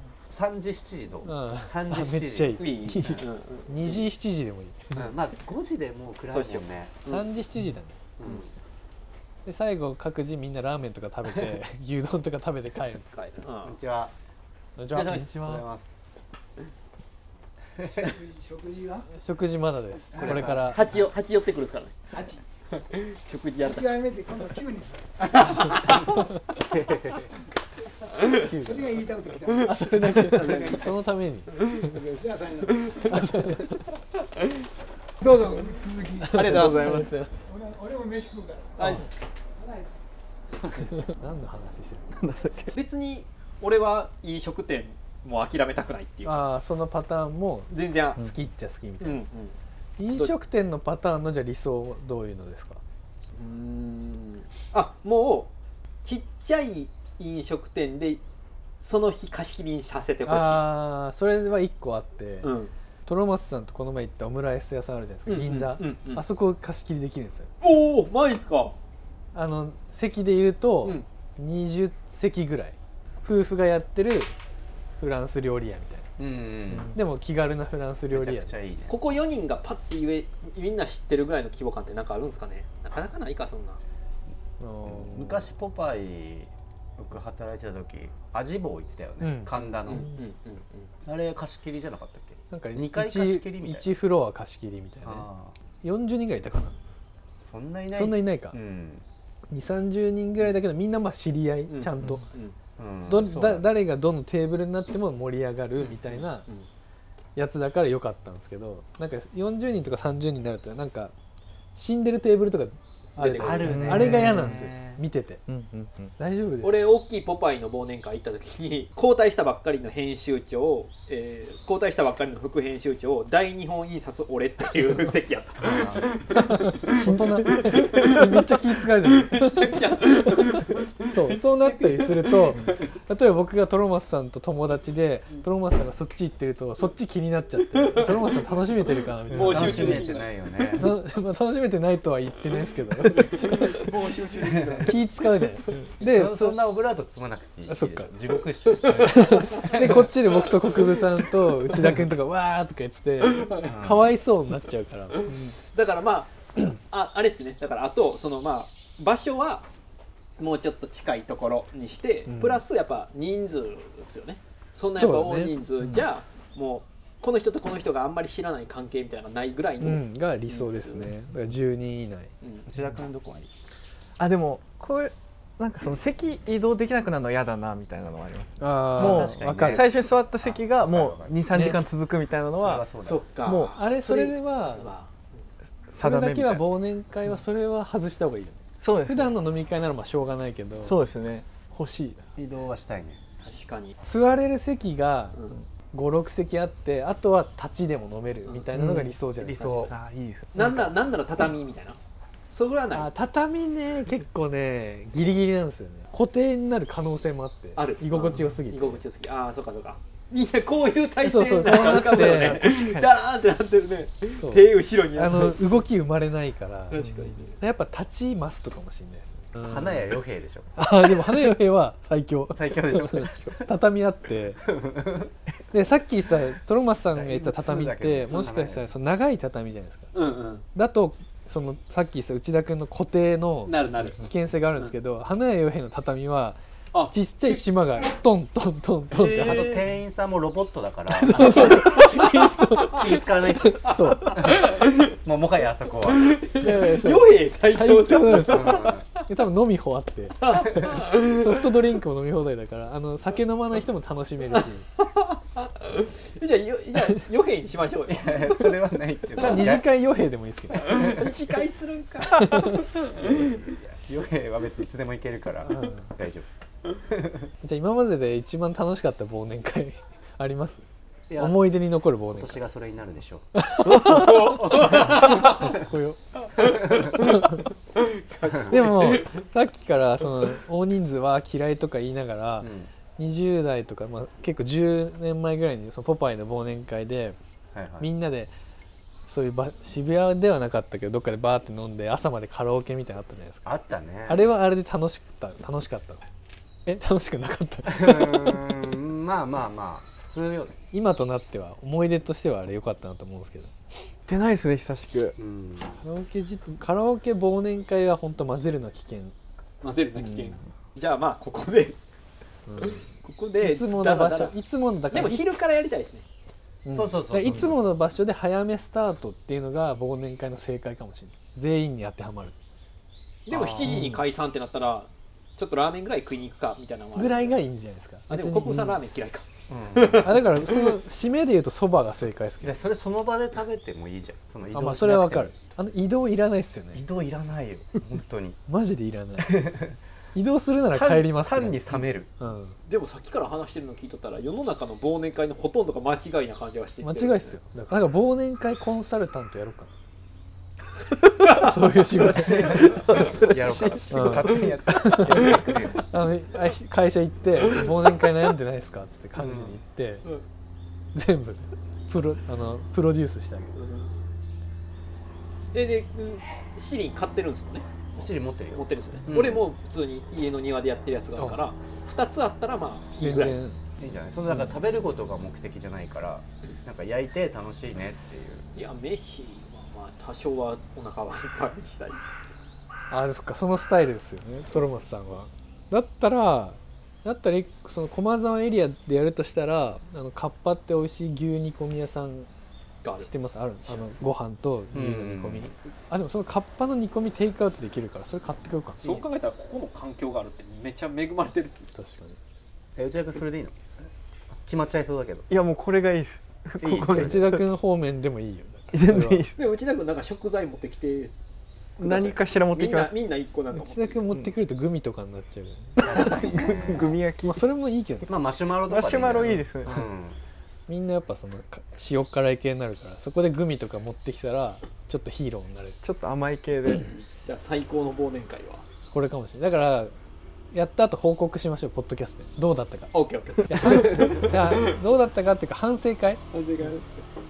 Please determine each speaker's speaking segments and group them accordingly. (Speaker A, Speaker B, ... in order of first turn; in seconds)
Speaker A: 0.3-2.7, 5.0-7.1, 8.2-8.5, 13.6-14.1, 14.9-16.0, 17.8-18.2, 20.2-20.7, 25.4-27.3, 76.2-76.9, 78.1-79.0, 84.8-90.1, 91.0-93.9, 95.0-95.6, 97.5-99.0, 102.8-103.7, 113.3-115.0, 125.6-126.5, 139.5-140.9, 144.4-144.8, 146.0-150.1, 153.6-154.1, 172.7-173.5, 179.0-181.5, 182.5-183.3, 192.4-193.2, 199.4-199.9, 219.6-220.9, 222.5-223.8, 224.6-225.3, 227.1-228.9, 239.1-242.0, 242.9-246.5, 248.5-249.1, 258.1-259.9, 260.9-261.6, 263.0-267.5, 271.3-273.4, 274.8-275.2, 276.8-277.1, 278.4-278.9, 282.6-282.9, 287.7-288.1, 293.7-294.5, 297.9-300.8, 305.4-306.0, 316.9-317.8, 323.5-324.1, 329.7-330.4, 332.6-335.6, 336.9-338.6, 339.4-340.0, 340.9-342.3, 352.2-356.1, 359.4-359.8, 368.1-369.7, 374.0-378.7, 394.9-395.7, 403.0-403.8, 404.6-405.4, 406.8-407.5, 416.0-417.2, 418.2-420.4
Speaker B: 1.2-5.1, 7.1-8.0, 9.4-13.1, 14.8-15.7, 19.0-20.9, 28.2-32.1, 32.9-33.9, 36.1-37.5, 38.8-39.1, 40.9-42.2, 46.2-49.2, 50.0-52.8, 60.2-62.5, 63.1-67.5, 69.3-74.3, 75.0-76.0, 76.7-78.5, 84.6-85.5, 89.2-90.2, 92.5-95.3, 95.8-96.8, 97.9-98.6, 99.5-102.3, 103.1-106.5, 107.4-111.1, 111.8-115.5, 116.2-116.9, 126.4-140.1, 140.8-143.8, 144.8-146.6, 147.7-148.1, 148.9-155.6, 162.3-162.6, 164.9-166.0, 169.8-172.3, 178.6-179.8, 181.5-181.8, 183.7-184.9, 186.0-191.0, 194.0-199.8, 202.9-209.0, 211.2-212.6, 214.4-219.7, 220.8-224.7, 225.7-230.1, 230.7-239.8, 241.1-243.0, 243.6-244.4, 246.5-254.9, 259.4-261.0, 262.3-262.9, 265.6-266.1, 267.6-270.9, 271.4-272.6, 273.6-276.2, 276.7-277.6, 278.7-287.4, 288.0-288.5, 289.3-296.2, 296.9-298.7, 300.9-303.7, 306.0-309.3, 310.2-310.5, 312.7-313.0, 313.6-315.5, 316.9-322.6, 323.8-324.2, 327.1-329.0, 330.2-332.8, 334.7-337.0, 338.7-339.8, 340.4-342.8, 347.0-349.9, 351.5-353.4, 354.1-360.3, 361.1-363.7, 371.4-371.6, 373.2-373.8, 383.1-392.5, 393.2-399.3, 401.9-402.4, 407.1-409.5, 413.7-416.4, 417.4-418.3, 420.9-426.0, 429.1-430.1, 430.7-436.4
Speaker C: 2.6-4.0, 6.3-7.3, 13.1-13.8, 20.5-24.5, 25.4-26.3, 30.0-31.1, 36.3-37.1, 38.8-39.1, 42.7-46.5, 47.7-48.3, 49.0-49.6, 53.4-55.5, 56.0-58.2, 58.8-60.7, 62.4-62.7, 65.3-66.2, 67.6-68.8, 78.9-83.8, 89.8-90.9, 101.7-102.6, 105.8-106.7, 113.2-113.9, 116.6-126.0, 127.8-128.3, 129.1-132.7, 137.9-138.4, 139.3-140.3, 143.4-144.7, 148.9-149.9, 155.7-159.7, 160.4-171.1, 172.4-172.7, 183.0-185.4, 193.4-194.0, 199.5-199.9, 200.6-202.0, 202.5-203.1, 207.8-215.8, 216.9-217.6, 230.1-230.7, 233.6-234.9, 236.9-237.6, 241.4-243.0, 243.9-244.9, 246.3-249.0, 250.4-251.4, 254.6-258.7, 260.8-263.3, 273.8-275.7, 276.6-277.6, 278.2-279.4, 309.8-312.0, 312.8-314.6, 315.1-316.2, 323.5-327.6, 328.3-331.0, 342.9-347.6, 351.4-355.8, 363.8-364.3, 365.7-373.6, 378.7-382.2, 393.0-393.3, 399.0-401.9, 409.6-411.3, 412.0-414.2, 427.4-428.8, 433.1-434.6, 436.5-437.0
Speaker D: 18.3-19.0, 23.7-25.0, 29.0-29.6, 32.2-32.5, 35.2-36.1, 37.5-38.7
Speaker E: 42.1-42.8, 113.7-114.7, 115.5-116.1, 144.2-144.6, 174.2-182.8, 183.4-183.8, 185.9-186.8, 188.8-189.3, 190.8-192.2, 198.7-199.2, 199.9-200.9, 212.1-213.1, 217.0-217.3, 304.3-305.4, 405.5-407.7, 408.9-409.6, 412.0-413.2, 414.3-414.6, 416.0-417.7, 418.9-420.0, 426.0-427.2